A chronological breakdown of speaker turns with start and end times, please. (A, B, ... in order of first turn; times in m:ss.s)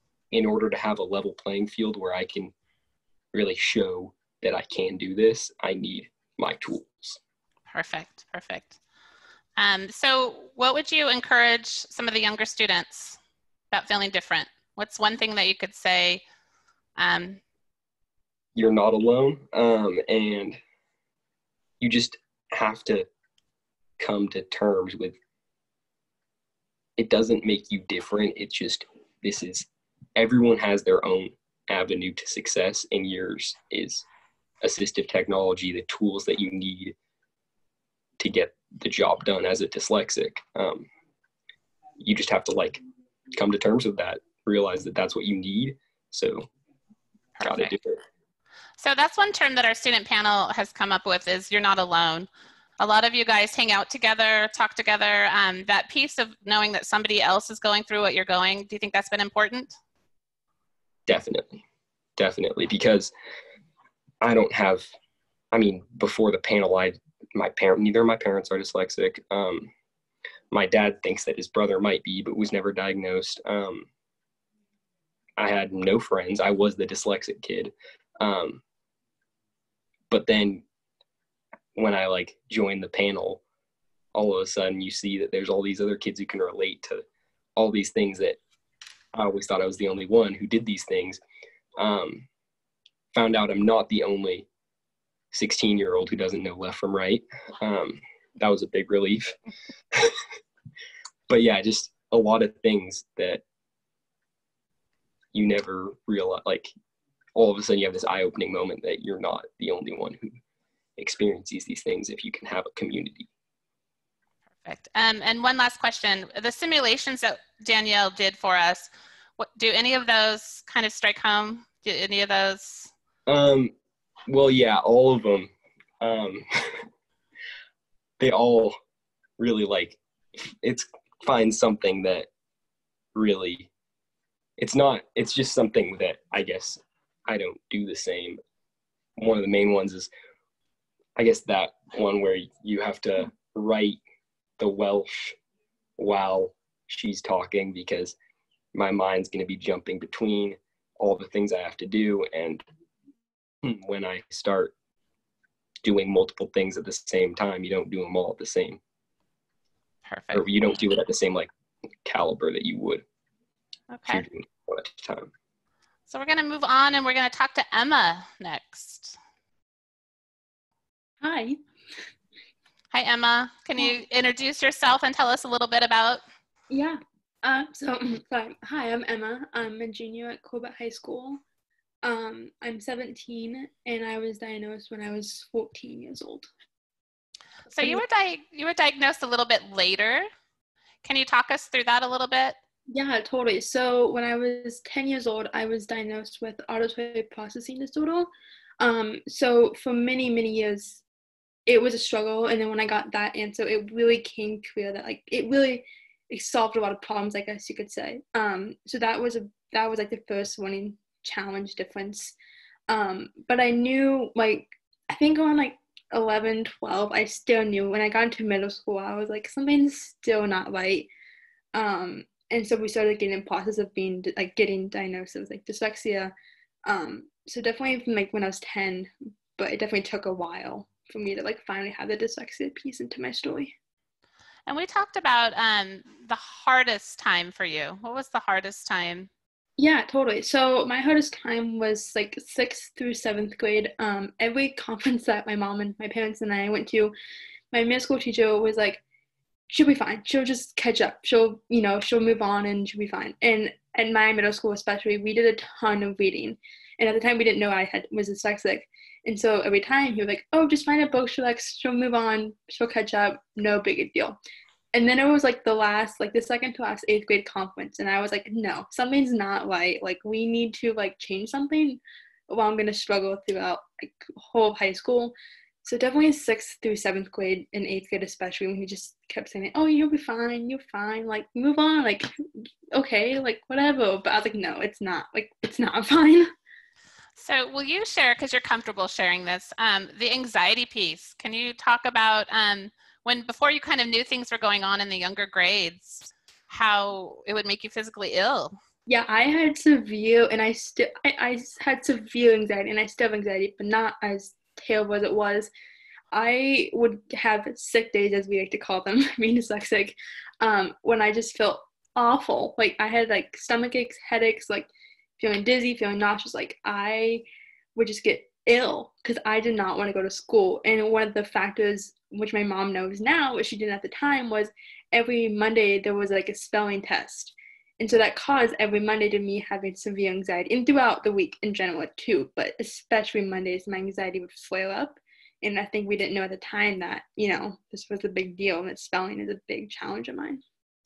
0:00.3-0:02.5 A
0:03.3-0:07.2 A
0:07.7-0:08.8 B
0:09.6-0:13.2 B
0:13.7-0:16.2 B
0:17.0-0:17.4 B
0:18.6-0:20.6 A
0:21.8-0:23.1 A
0:24.0-0:25.2 A
0:27.0-0:34.0 A
0:34.6-0:37.0 A
0:38.2-0:40.9 A
0:42.0-0:42.8 A
0:43.3-0:46.5 A
0:47.4-0:47.7 B
0:47.4-0:48.0 A
0:48.8-0:52.3 B
0:52.8-0:59.8 B
1:01.1-1:01.6 A
1:02.2-1:03.1 A
1:04.2-1:04.9 A
1:05.5-1:09.7 A
1:10.5-1:13.9 A
1:15.4-1:18.6 A
1:20.1-1:20.6 A
1:21.8-1:23.4 A
1:24.2-1:27.0 A
1:27.6-1:28.4 A
1:29.1-1:31.2 A
1:31.8-1:32.3 A
1:33.1-1:34.5 A
1:35.3-1:39.4 A
1:41.3-1:43.4 A
1:45.3-1:46.7 A
1:47.4-1:50.4 A
1:51.0-1:53.3 A
1:54.6-2:02.9 B
2:03.3-2:03.7 A
2:04.3-2:06.8 A
2:08.2-2:08.8 A
2:09.4-2:12.3 A
2:13.2-2:13.7 A
2:14.6-2:18.4 A
2:19.2-2:20.1 A
2:21.2-2:24.0 A
2:24.6-2:25.4 A
2:26.0-2:28.2 A
2:28.7-2:32.6 A
2:33.6-2:34.7 A
2:35.8-2:38.8 A
2:40.1-2:40.5 B
2:40.3-2:41.5 A
2:42.0-2:43.0 A
2:43.9-2:44.2 B
2:44.1-2:45.3 A
2:46.1-2:49.2 B
2:51.2-2:51.6 C
2:52.9-2:56.2 B
2:56.7-3:01.4 C
3:02.0-3:06.5 C
3:07.7-3:10.3 B
3:07.8-3:08.0 C
3:11.0-3:12.6 B
3:12.9-3:21.0 C
3:21.7-3:32.4 C
3:32.9-3:41.1 C
3:41.7-3:46.3 C
3:46.9-3:53.8 C
3:54.7-3:59.3 B
3:59.8-4:07.1 C
4:07.7-4:09.0 C
4:09.7-4:24.4 C
4:24.9-4:42.3 C
4:42.9-4:46.5 C
4:47.4-4:58.8 B
4:59.1-5:05.7 C
5:06.3-5:40.6 C